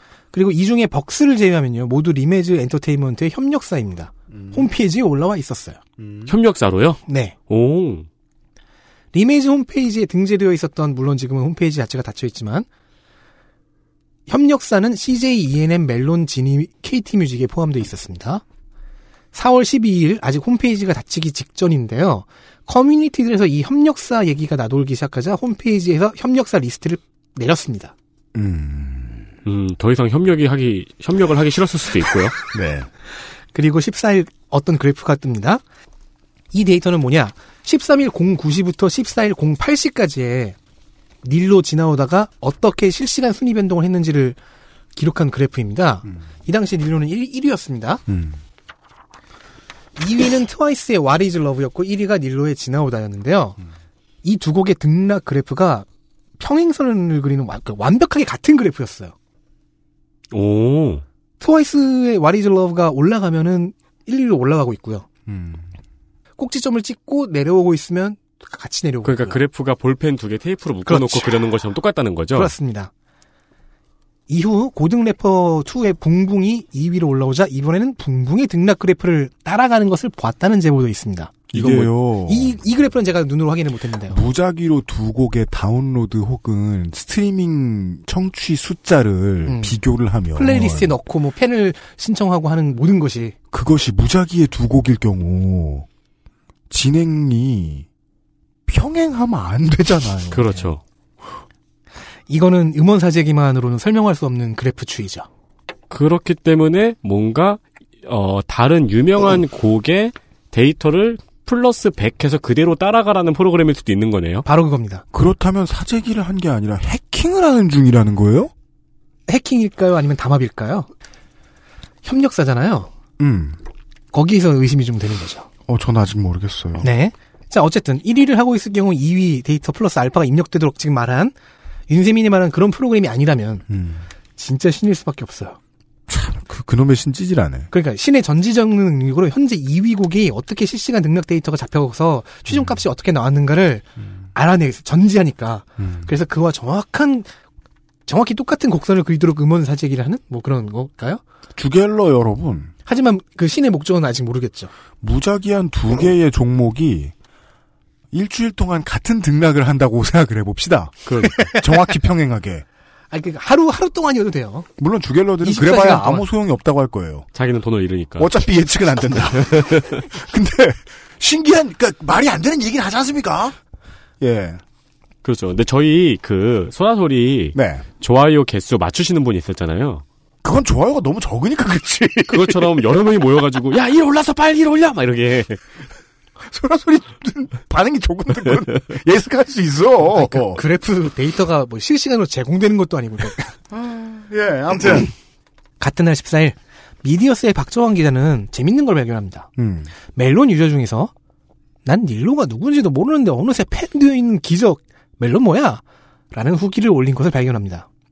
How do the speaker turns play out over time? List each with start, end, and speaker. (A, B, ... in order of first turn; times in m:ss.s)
0:00.3-0:05.8 A
0:04.3-0:04.6 B
0:06.0-0:06.3 B
0:06.3-0:08.1 C
0:07.1-0:07.3 A
0:09.1-0:12.7 A
0:14.3-0:18.4 A
0:19.3-0:27.9 A
0:28.3-0:29.3 B
0:29.4-0:32.4 C
0:32.5-0:32.9 B
0:33.5-0:35.6 A
0:36.5-0:40.6 A
0:41.2-0:44.4 A
0:45.0-0:48.0 A
0:48.1-0:48.4 B
0:50.0-0:53.6 A
0:54.2-0:55.8 A
0:56.4-0:59.1 A
1:00.3-1:01.0 C
1:01.4-1:05.1 A
1:05.3-1:05.7 B
1:06.4-1:09.4 A
1:09.0-1:12.5 C
1:10.8-1:11.4 A
1:12.3-1:12.9 A
1:14.3-1:21.5 A
1:21.5-1:22.6 B
1:21.5-1:21.9 C
1:22.2-1:24.2 A
1:24.1-1:30.9 B
1:29.4-1:29.7 A
1:30.4-1:33.3 A
1:33.5-1:35.9 B
1:36.7-1:37.8 B
1:38.7-1:40.7 B
1:40.3-1:40.8 C
1:42.3-1:45.3 A
1:45.9-1:54.4 C
1:54.4-1:55.0 A
1:55.1-1:58.5 B
1:59.3-2:00.9 A
2:02.0-2:02.9 A
2:03.2-2:03.6 B
2:04.1-2:05.5 A
2:05.7-2:06.9 B
2:06.8-2:11.3 A
2:11.9-2:13.6 A
2:13.7-2:14.0 B
2:14.4-2:15.6 A
2:16.1-2:17.7 B
2:17.7-2:27.3 A
2:22.5-2:22.8 B
2:25.8-2:26.1 B
2:28.1-2:31.2 A
2:31.6-2:32.7 B
2:32.8-2:34.7 A
2:35.0-2:37.1 B
2:38.1-2:42.6 B
2:41.1-2:41.5 C
2:43.1-2:44.7 A
2:44.8-2:47.2 B
2:45.4-2:46.3 A
2:47.3-2:48.4 C
2:48.2-2:53.6 B
2:49.4-2:50.0 C
2:54.2-2:54.6 B
2:55.2-3:00.0 C
2:57.5-2:57.8 B
3:00.4-3:02.8 B
3:02.3-3:05.6 C
3:06.4-3:10.6 B
3:10.1-3:13.5 A
3:13.7-3:15.1 B
3:15.8-3:19.5 A
3:19.6-3:19.9 B
3:20.1-3:21.1 A
3:21.8-3:27.9 A